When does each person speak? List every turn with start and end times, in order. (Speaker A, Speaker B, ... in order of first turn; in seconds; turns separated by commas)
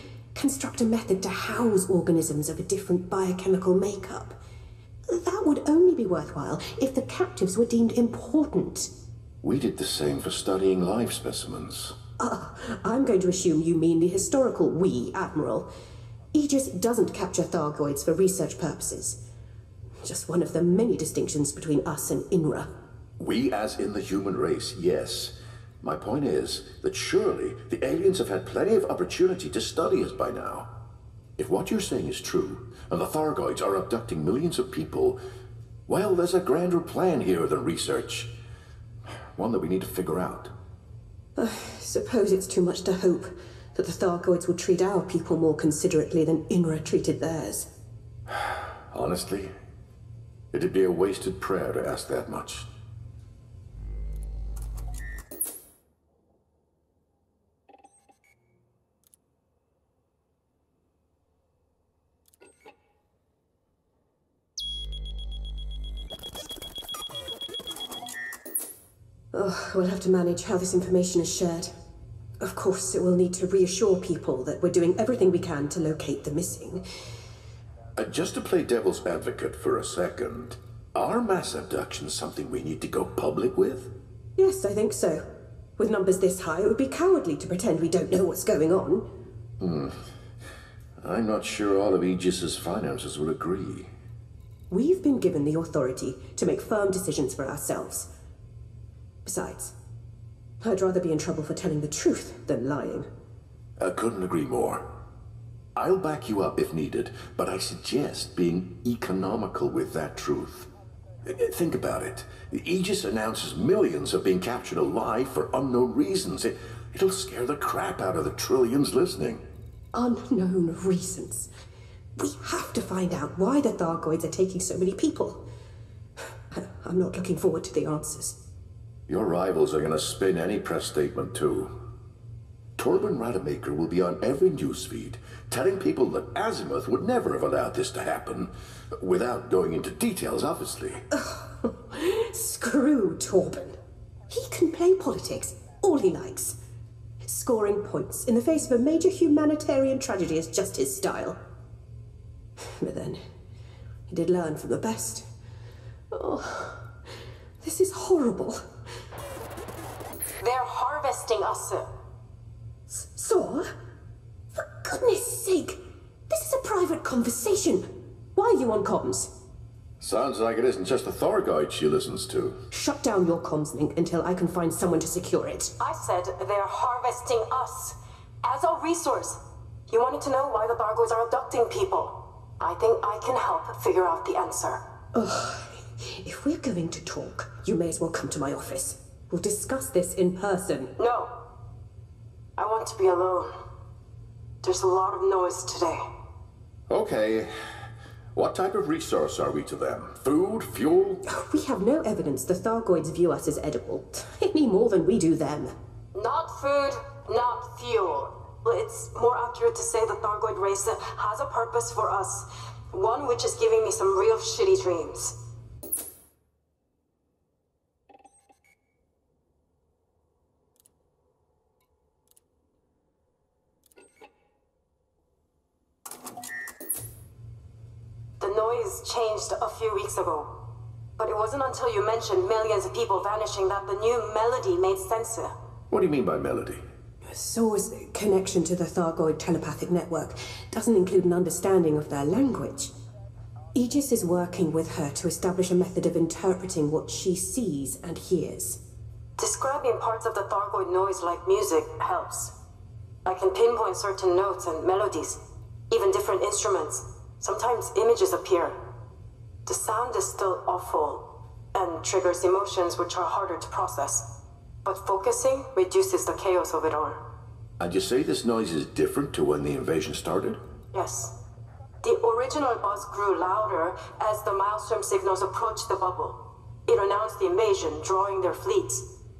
Speaker A: 0.3-4.4, Speaker A: 5.1-8.9, Speaker B: 9.4-11.9, Speaker A: 12.2-15.7, Speaker A: 16.3-19.2, Speaker A: 20.0-22.7, Speaker B: 23.2-30.7, Speaker B: 31.4-35.2, Speaker B: 35.9-38.3, Speaker B: 39.4-40.5, Speaker A: 41.4-47.7, Speaker B: 48.9-49.5, Speaker B: 50.5-52.7, Speaker A: 69.3-71.7, Speaker A: 72.4-76.8, Speaker B: 78.0-83.9, Speaker A: 84.4-85.2, Speaker A: 85.8-89.1, Speaker B: 89.6-90.0, Speaker B: 91.0-93.9, Speaker A: 94.7-98.1, Speaker A: 99.2-99.7, Speaker A: 100.6-103.1, Speaker B: 103.8-104.8, Speaker B: 105.8-110.7, Speaker B: 111.2-119.4, Speaker A: 119.9-121.5, Speaker A: 122.2-125.4, Speaker A: 126.5-128.3, Speaker B: 129.1-131.7, Speaker B: 132.8-141.0, Speaker A: 141.1-143.8, Speaker A: 144.3-146.6, Speaker A: 147.2-151.4, Speaker A: 152.8-153.2, Speaker A: 154.1-155.2, Speaker A: 156.1-156.8, Speaker A: 157.6-158.6, Speaker C: 160.4-161.9, Speaker A: 162.9-163.7, Speaker A: 164.6-165.8, Speaker A: 166.3-167.8, Speaker A: 168.3-169.3, Speaker B: 170.0-172.6, Speaker A: 172.7-175.7, Speaker C: 175.8-184.8, Speaker A: 185.1-190.9, Speaker C: 191.0-191.3, Speaker C: 192.6-193.5, Speaker C: 194.6-196.0, Speaker B: 196.9-197.5, Speaker B: 198.3-201.2, Speaker A: 201.3-205.7, Speaker C: 206.1-215.3, Speaker C: 228.4-230.6, Speaker C: 231.2-235.5, Speaker B: 235.9-236.8, Speaker A: 237.3-242.9, Speaker A: 243.7-248.8, Speaker C: 249.4-252.5, Speaker C: 253.2-258.8, Speaker C: 259.6-264.2, Speaker C: 264.8-267.2, Speaker B: 267.8-270.6, Speaker C: 270.9-271.3, Speaker C: 272.0-279.0